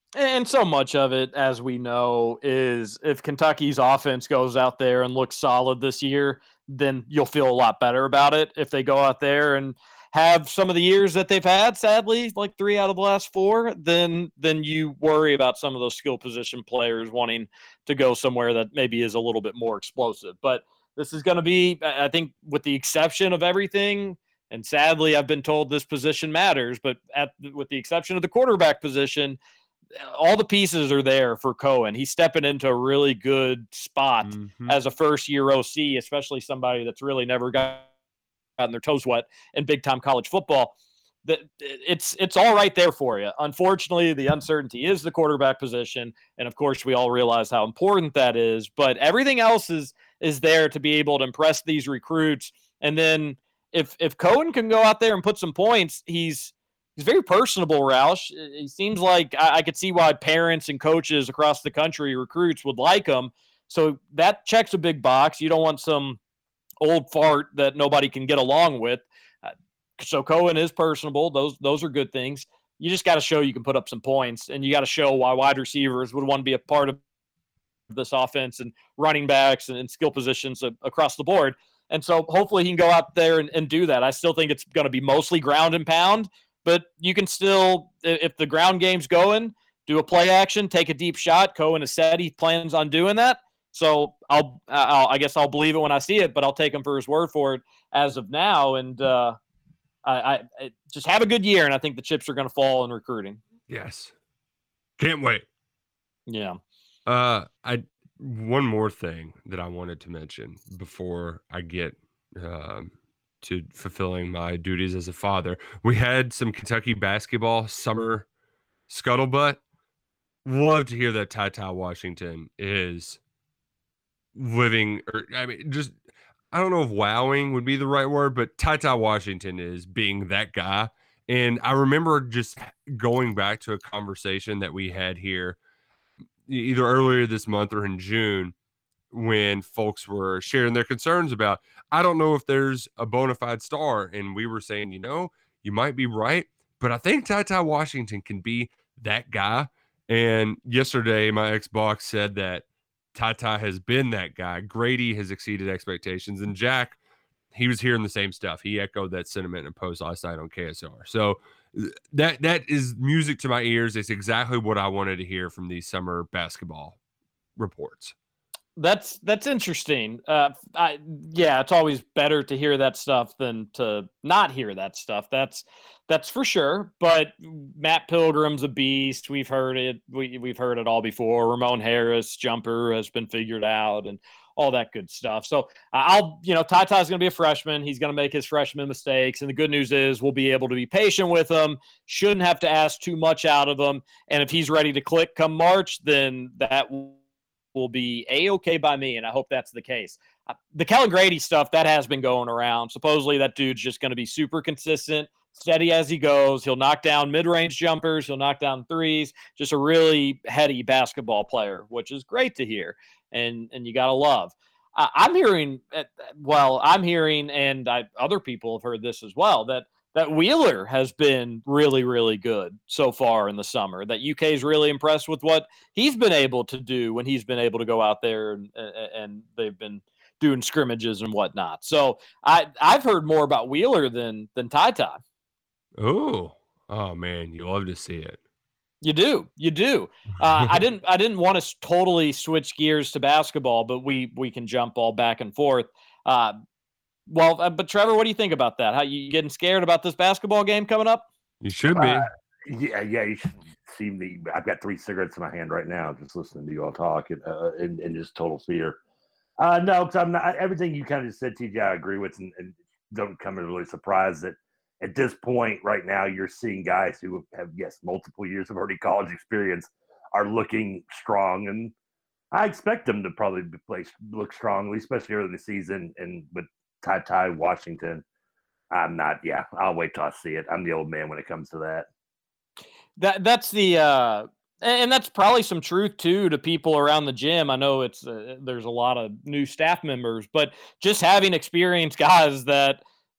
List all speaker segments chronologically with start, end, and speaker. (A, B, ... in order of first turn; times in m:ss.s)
0:00.2-0:29.4 A
0:30.0-0:37.8 A
0:34.2-0:34.8 B
0:38.6-0:40.7 A
0:41.2-1:06.2 A
1:06.8-1:17.0 A
1:17.9-1:39.4 A
1:40.0-1:43.4 A
1:43.7-1:44.1 B
1:45.0-1:45.4 B
1:46.3-1:46.6 A
1:47.0-1:58.2 B
1:58.9-1:59.6 B
2:00.4-2:03.2 B
2:04.3-2:05.9 B
2:06.5-2:15.6 B
2:16.5-2:18.5 B
2:19.1-2:37.0 B
2:37.5-2:47.0 B
2:47.6-2:48.1 B
2:48.8-3:17.2 A
3:17.7-3:20.2 A
3:20.7-3:55.2 A
3:56.0-3:58.4 B
3:59.0-4:06.6 A
4:07.3-4:11.2 A
4:11.6-4:12.3 B
4:11.9-4:19.0 C
4:19.6-4:31.9 C
4:32.5-4:38.2 C
4:38.9-4:42.1 C
4:43.2-4:53.0 A